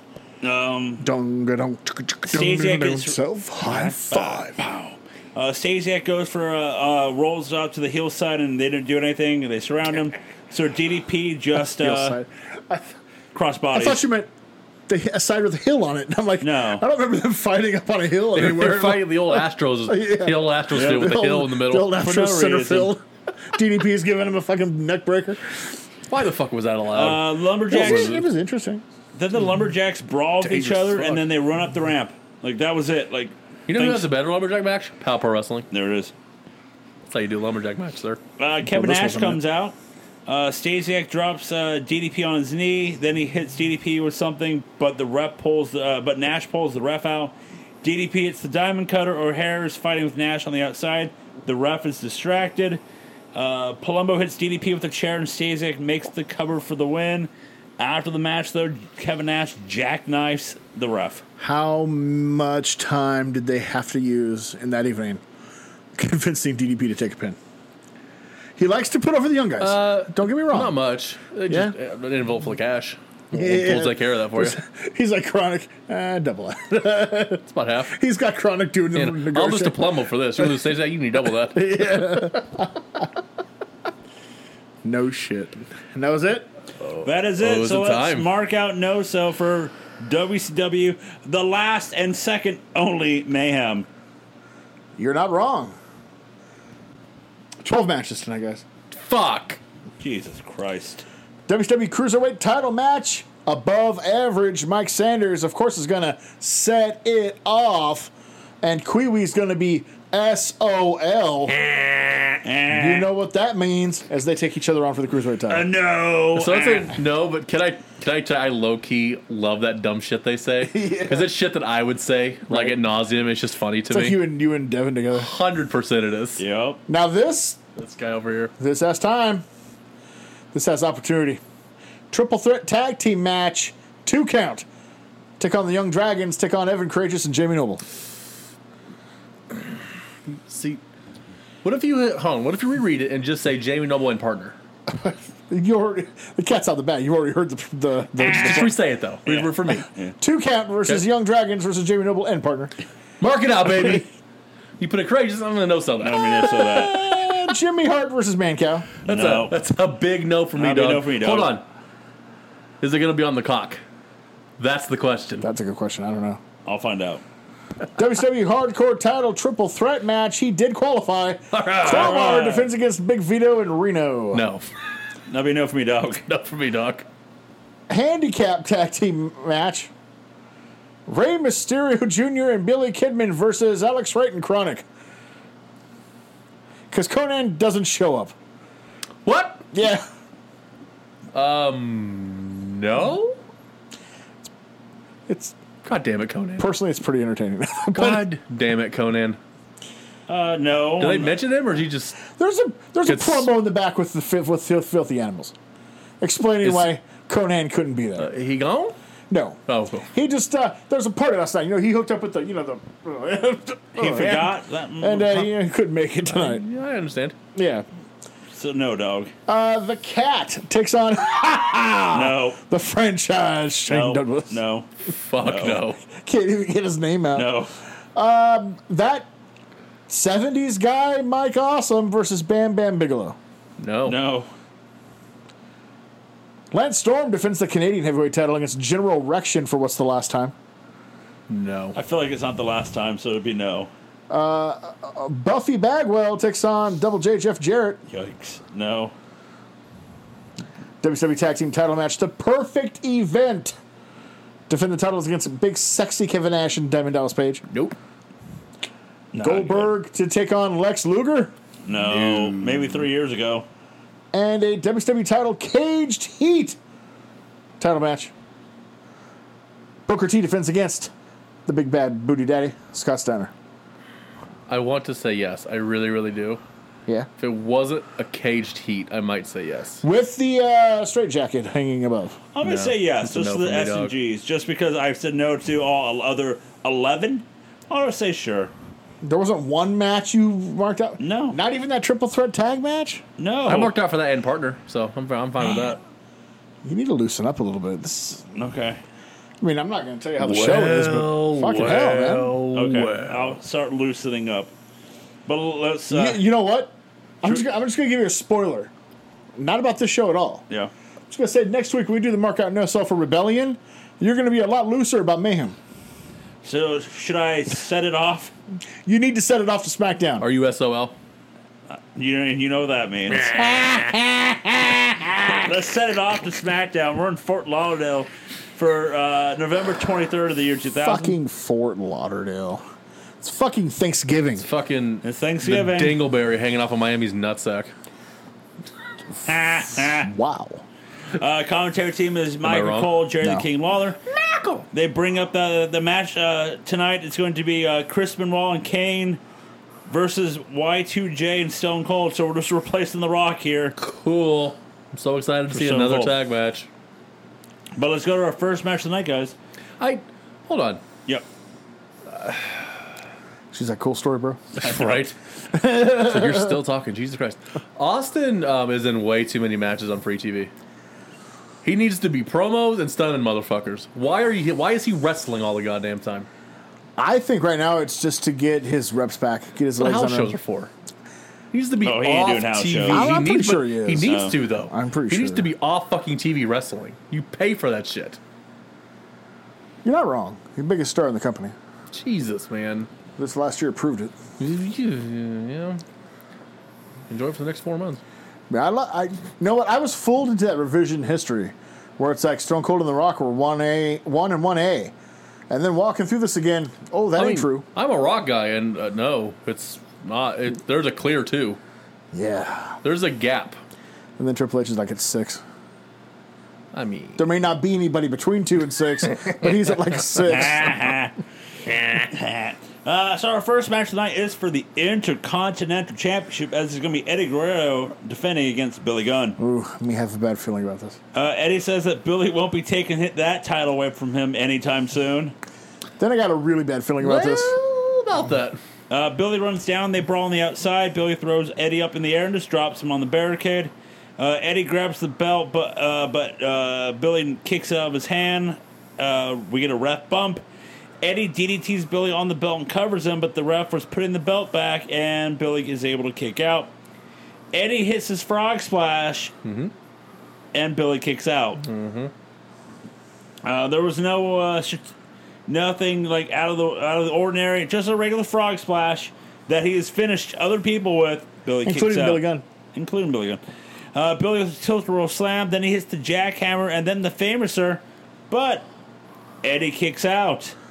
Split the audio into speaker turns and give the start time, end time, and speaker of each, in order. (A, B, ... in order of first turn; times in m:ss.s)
0:00.4-0:01.0 A
0:01.0-0:04.6 B
0:02.3-0:12.2 A
0:11.8-0:13.0 B
0:13.3-0:14.0 A
0:13.7-0:14.3 B
0:14.9-0:25.7 B
0:16.4-0:16.8 A
0:18.4-0:21.9 C
0:20.7-0:21.1 A
0:22.0-0:22.9 A
0:26.1-0:28.3 C
0:26.9-0:28.2 A
0:27.7-0:28.8 B
0:29.2-0:34.1 A
0:30.4-0:31.2 C
0:33.7-0:35.7 C
0:35.7-0:36.1 A
0:37.1-0:38.2 C
0:38.4-0:39.8 A
0:38.7-0:39.4 B
0:40.3-0:52.8 A
0:53.4-1:01.2 A
1:01.4-1:05.2 B
1:06.0-1:07.4 B
1:08.6-1:10.8 B
1:09.6-1:14.6 C
1:11.5-1:11.8 B
1:13.3-1:20.6 B
1:17.5-1:18.0 C
1:19.0-1:22.2 C
1:21.5-1:23.1 B
1:24.8-1:26.5 B
1:26.8-1:28.3 C
1:27.0-1:33.9 A
1:35.0-1:35.8 B
1:37.6-1:38.6 B
1:38.9-1:39.6 C
1:40.0-1:41.0 A
1:41.5-1:51.6 B
1:52.4-1:53.1 A
1:52.7-1:55.7 B
1:55.5-1:57.0 A
1:56.4-2:04.2 C
2:00.6-2:01.3 B
2:02.5-2:02.8 B
2:03.9-2:05.3 B
2:05.1-2:06.4 C
2:06.4-2:06.8 A
2:06.9-2:07.6 B
2:07.8-2:08.5 C
2:08.6-2:09.4 B
2:10.5-2:11.4 B
2:12.1-2:14.7 B
2:15.4-2:17.8 B
2:20.5-2:20.8 C
2:21.6-2:24.6 C
2:24.9-2:28.8 B
2:28.3-2:29.9 C
2:29.3-2:30.1 A
2:30.2-2:32.7 B
2:33.2-2:34.1 C
2:34.8-2:37.3 C
2:36.0-2:37.0 A
2:36.7-2:38.9 B
2:39.0-2:39.6 A
2:39.0-2:41.6 C
2:40.6-2:41.6 A
2:42.8-2:43.8 C
2:44.6-2:45.5 C
2:45.4-2:46.4 B
2:46.6-2:47.2 A
2:48.0-2:54.5 B
2:51.7-2:52.7 A
2:51.8-2:52.2 C
2:54.3-2:54.7 C
2:55.3-2:56.2 A
2:56.3-2:57.0 C
2:57.9-2:59.9 B
3:01.1-3:04.8 B
3:06.9-3:08.3 B
3:09.2-3:09.6 C
3:09.7-3:10.0 B
3:11.3-3:13.4 C
3:15.3-3:15.6 B
3:15.8-3:16.7 C
3:16.6-3:18.3 B
3:18.0-3:19.4 C
3:20.3-3:21.4 A
3:21.0-3:22.2 C
3:22.3-3:25.6 B
3:23.1-3:23.5 C
3:26.2-3:28.3 B
3:26.6-3:26.9 C
3:28.2-3:29.0 C
3:29.3-3:36.6 B
3:29.7-3:30.1 C
3:34.0-3:35.5 A
3:36.2-3:37.4 C
3:37.6-3:37.8 B
3:38.5-3:39.3 A
3:39.5-3:44.6 B
3:42.1-3:42.6 A
3:43.9-3:44.9 A
3:45.1-3:46.0 C
3:45.4-3:45.8 A
3:46.0-3:47.6 B
3:47.4-3:47.7 A
3:48.2-3:49.3 B
3:50.1-3:53.4 B
3:53.8-3:54.2 C
3:54.0-3:54.5 A
3:56.7-4:00.5 B
4:01.5-4:02.0 C
4:02.0-4:03.9 A
4:04.3-4:08.0 B
4:08.1-4:09.1 A
4:11.0-4:13.8 B
4:14.7-4:17.6 B
4:17.7-4:18.0 C
4:19.3-4:20.0 A
4:19.4-4:21.5 B
4:21.9-4:23.7 A
4:22.0-4:23.1 C
4:24.3-4:26.8 B
4:27.8-4:28.3 B
4:30.1-4:31.1 B
4:31.7-4:33.5 B
4:34.7-4:36.6 C
4:37.4-4:40.0 C
4:40.0-4:42.4 B
4:42.5-4:48.7 A
4:42.6-4:44.1 C
4:49.2-4:53.2 B
4:51.2-4:51.6 A
4:53.4-4:53.9 A
4:53.7-4:56.0 C
4:56.8-4:58.5 B
4:58.6-4:59.0 A
4:59.6-5:02.6 B
5:00.4-5:03.6 C
5:02.7-5:04.7 A
5:05.5-5:06.4 A
5:06.1-5:08.9 B
5:09.6-5:10.6 B
5:11.3-5:15.8 B
5:16.6-5:18.5 A
5:19.1-5:20.5 B
5:20.4-5:21.2 C
5:22.1-5:23.7 A
5:23.3-5:25.7 B
5:25.6-5:31.4 A
5:30.9-5:32.8 B
5:33.4-5:34.7 B
5:34.6-5:37.9 C
5:35.2-5:36.2 A
5:39.4-5:40.3 A
5:40.2-5:40.8 B
5:41.3-5:44.2 A
5:42.6-5:43.1 C
5:43.4-5:43.7 B
5:44.3-5:44.9 C
5:44.9-5:49.4 A
5:50.1-5:54.0 A
5:54.0-5:56.9 C
5:55.7-5:56.4 A
5:58.0-5:59.6 A
6:00.0-6:01.0 C
6:02.4-6:02.7 C
6:03.7-6:04.8 B
6:04.8-6:10.7 C
6:05.8-6:06.7 B
6:11.8-6:16.5 C
6:17.2-6:20.6 B
6:20.0-6:20.9 C
6:21.7-6:28.4 C
6:22.0-6:23.3 A
6:23.1-6:25.7 B
6:24.2-6:24.6 A
6:30.0-6:31.8 B
6:32.1-6:33.1 C
6:33.4-6:34.4 B
6:34.6-6:36.0 C
6:37.3-6:38.2 C
6:38.7-6:45.1 B
6:45.7-6:47.8 B
6:47.4-6:51.8 C
6:52.3-6:53.0 B
6:53.0-6:53.8 C
6:54.4-6:55.6 B
6:56.9-6:57.5 C
6:57.4-7:01.0 B
7:00.5-7:01.4 A
7:01.9-7:09.6 A
7:09.6-7:11.2 B
7:11.3-7:15.5 A
7:16.2-7:17.8 B
7:17.2-7:18.8 C
7:19.1-7:30.6 A
7:31.2-7:36.9 A
7:37.7-7:39.5 A
7:39.6-7:39.9 C
7:40.7-7:41.8 A
7:41.8-7:42.3 C
7:43.6-7:45.1 A
7:45.7-7:52.4 A
7:51.8-7:52.6 B
7:52.9-7:53.6 A
7:54.1-7:58.9 A
7:59.6-8:00.8 A